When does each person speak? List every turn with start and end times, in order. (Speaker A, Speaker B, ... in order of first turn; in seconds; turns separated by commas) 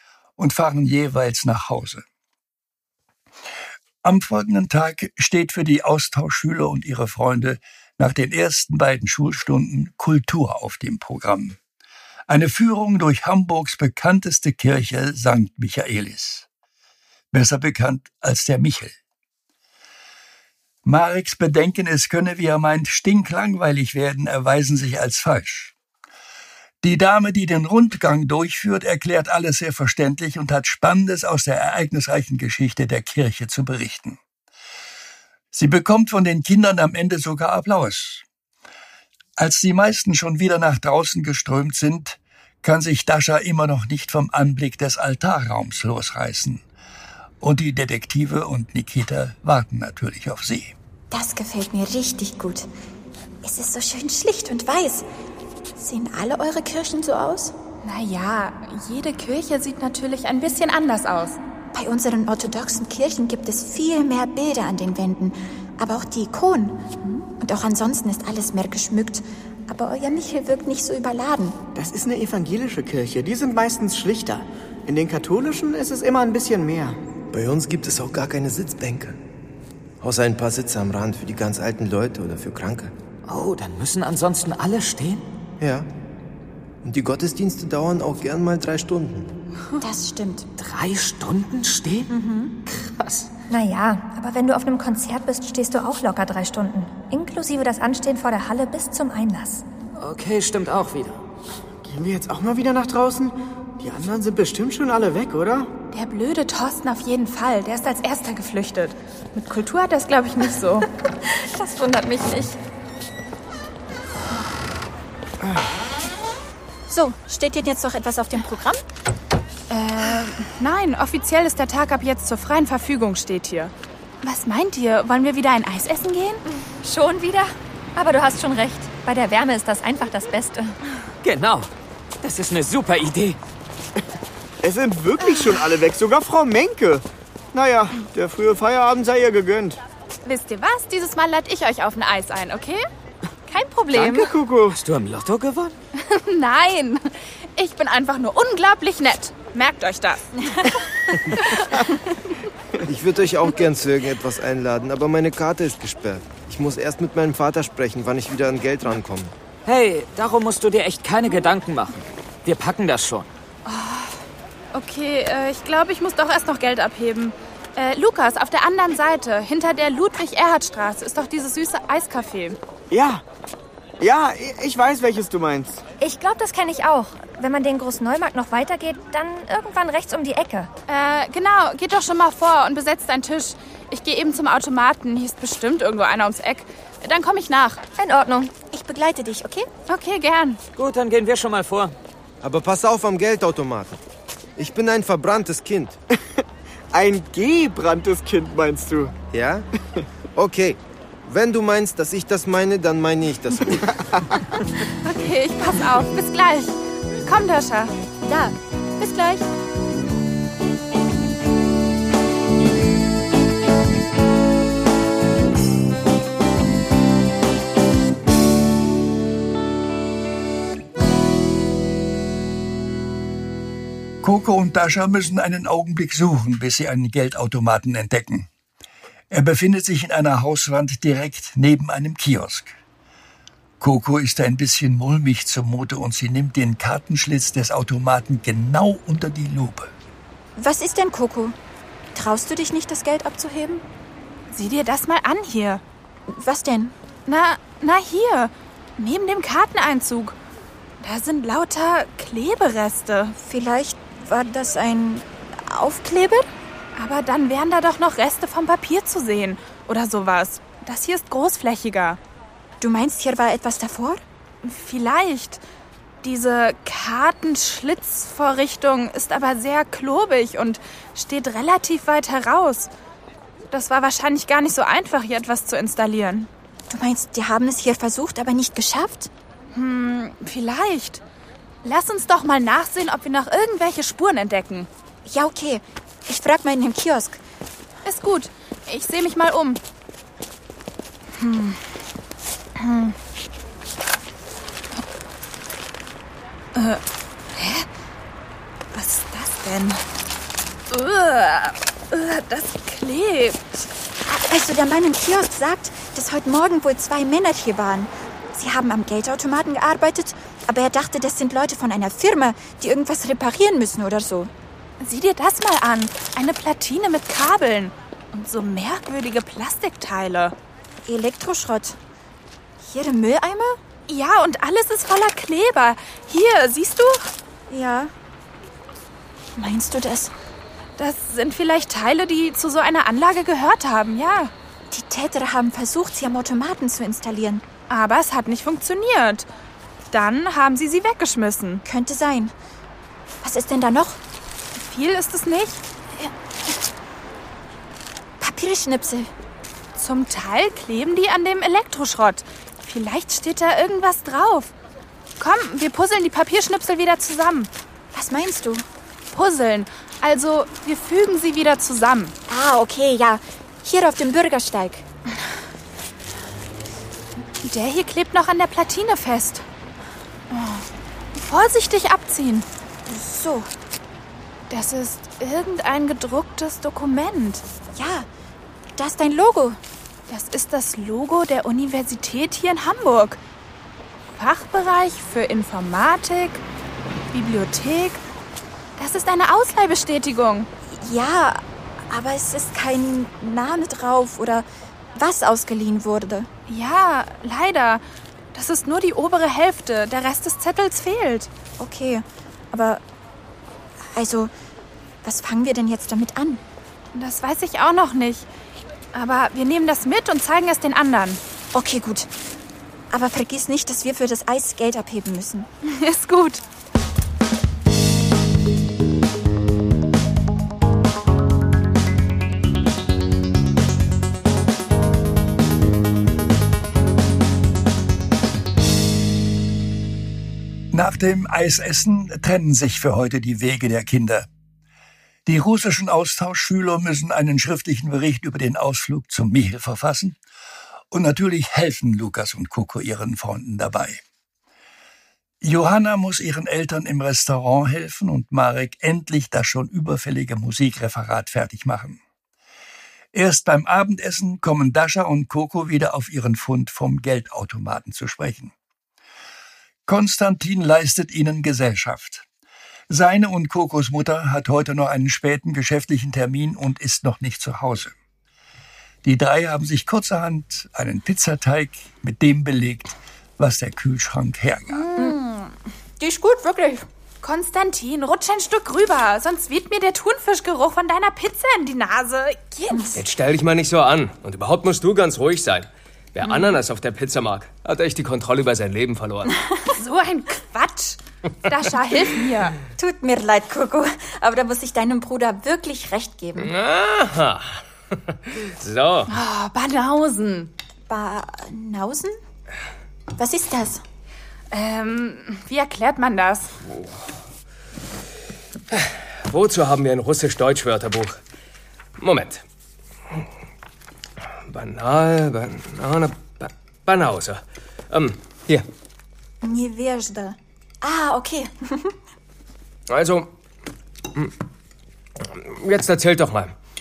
Speaker A: 0.4-2.0, Speaker A: 4.0-11.6, Speaker A: 12.3-16.5, Speaker A: 17.3-18.9, Speaker A: 20.8-25.7, Speaker A: 26.8-34.2, Speaker A: 35.5-38.2, Speaker A: 39.4-46.6, Speaker A: 47.4-50.7, Speaker B: 51.1-52.7, Speaker B: 53.4-55.0, Speaker B: 55.8-57.5, Speaker C: 57.8-61.4, Speaker B: 61.7-71.6, Speaker D: 71.7-77.0, Speaker E: 77.3-79.2, Speaker E: 80.0-82.9, Speaker F: 83.2-85.2, Speaker E: 85.6-85.9, Speaker E: 86.8-89.3, Speaker B: 89.8-90.5, Speaker F: 90.6-92.1, Speaker B: 92.1-92.5, Speaker F: 92.7-93.3, Speaker G: 93.5-99.6, Speaker F: 100.0-101.2, Speaker D: 101.8-105.7, Speaker C: 105.9-110.9, Speaker G: 111.5-112.0, Speaker B: 111.9-112.5, Speaker B: 116.9-118.8, Speaker C: 119.7-126.4, Speaker G: 126.8-130.8, Speaker F: 131.2-131.7, Speaker F: 132.2-133.4, Speaker D: 134.6-139.8, Speaker C: 140.2-142.8, Speaker C: 143.5-144.3, Speaker D: 143.9-144.8, Speaker F: 144.7-145.8, Speaker C: 145.9-150.2, Speaker E: 152.8-159.3, Speaker F: 159.6-163.3, Speaker C: 163.7-164.2, Speaker C: 164.7-172.6, Speaker D: 172.9-173.2, Speaker D: 174.0-175.8, Speaker G: 176.0-180.7, Speaker C: 180.9-187.8, Speaker G: 188.0-188.5, Speaker B: 188.7-189.7, Speaker C: 189.9-190.6, Speaker F: 190.8-191.9, Speaker E: 192.4-194.0, Speaker E: 194.6-196.0, Speaker D: 196.9-199.1, Speaker E: 199.3-199.7, Speaker E: 200.3-203.9, Speaker C: 205.0-207.9, Speaker B: 208.2-209.5, Speaker A: 224.2-228.5, Speaker A: 229.3-232.7, Speaker A: 233.8-239.9, Speaker B: 240.6-241.5, Speaker B: 242.1-243.8, Speaker C: 244.5-245.8, Speaker B: 246.3-246.9, Speaker C: 247.2-250.3, Speaker C: 251.0-253.3, Speaker B: 253.4-256.5, Speaker C: 256.9-262.2, Speaker B: 262.8-264.2, Speaker C: 264.6-265.6, Speaker C: 266.2-272.9, Speaker C: 273.7-276.5, Speaker B: 276.9-279.3, Speaker C: 279.7-281.2, Speaker C: 281.8-284.9, Speaker B: 285.2-287.4, Speaker C: 288.0-289.8, Speaker C: 291.3-291.8, Speaker C: 292.8-293.1, Speaker C: 296.7-297.0, Speaker C: 297.5-297.9, Speaker C: 298.9-300.0, Speaker C: 300.9-303.6, Speaker B: 304.3-314.5, Speaker C: 315.0-320.5, Speaker B: 321.1-322.0, Speaker B: 322.8-323.8, Speaker C: 324.1-327.3, Speaker B: 327.7-328.1, Speaker B: 329.6-330.3, Speaker C: 331.0-334.5, Speaker B: 334.9-337.6, Speaker C: 337.9-339.5, Speaker C: 340.1-341.8, Speaker B: 341.8-342.5, Speaker B: 343.4-344.2, Speaker C: 344.7-345.8, Speaker B: 348.4-349.3, Speaker C: 349.9-354.7, Speaker C: 355.4-357.7, Speaker B: 358.1-358.8, Speaker C: 359.3-362.3, Speaker B: 362.5-365.0, Speaker C: 367.6-369.6, Speaker C: 370.5-372.7, Speaker B: 373.1-373.7, Speaker C: 374.7-377.6, Speaker B: 377.9-378.3, Speaker B: 378.9-379.8, Speaker C: 380.3-383.4, Speaker C: 384.3-386.6, Speaker C: 387.3-388.2, Speaker C: 389.0-390.7, Speaker B: 390.9-396.5, Speaker C: 396.7-401.5, Speaker B: 401.8-403.0, Speaker B: 404.1-404.5, Speaker B: 405.2-406.6, Speaker C: 407.1-408.5, Speaker C: 409.1-411.4, Speaker B: 411.7-412.3, Speaker B: 413.1-415.7, Speaker C: 415.8-416.6, Speaker A: 430.9-434.5, Speaker A: 435.4-440.4, Speaker A: 441.1-444.2, Speaker A: 445.6-452.2, Speaker A: 453.3-458.7, Speaker A: 460.1-462.4, Speaker A: 463.1-468.1, Speaker A: 469.2-475.1, Speaker B: 475.1-475.5, Speaker C: 475.1-475.5, Speaker B: 476.2-477.1, Speaker C: 477.4-483.1, Speaker B: 482.9-483.2, Speaker H: 483.1-489.5, Speaker C: 489.9-492.8, Speaker B: 493.0-496.7, Speaker H: 496.6-497.8, Speaker H: 498.6-499.3, Speaker C: 499.3-500.7, Speaker B: 501.1-502.4, Speaker B: 503.4-504.0, Speaker C: 504.7-506.7, Speaker H: 508.9-511.4, Speaker H: 512.2-512.6, Speaker H: 514.7-518.9, Speaker B: 519.6-522.1, Speaker H: 523.1-523.5, Speaker H: 525.5-526.7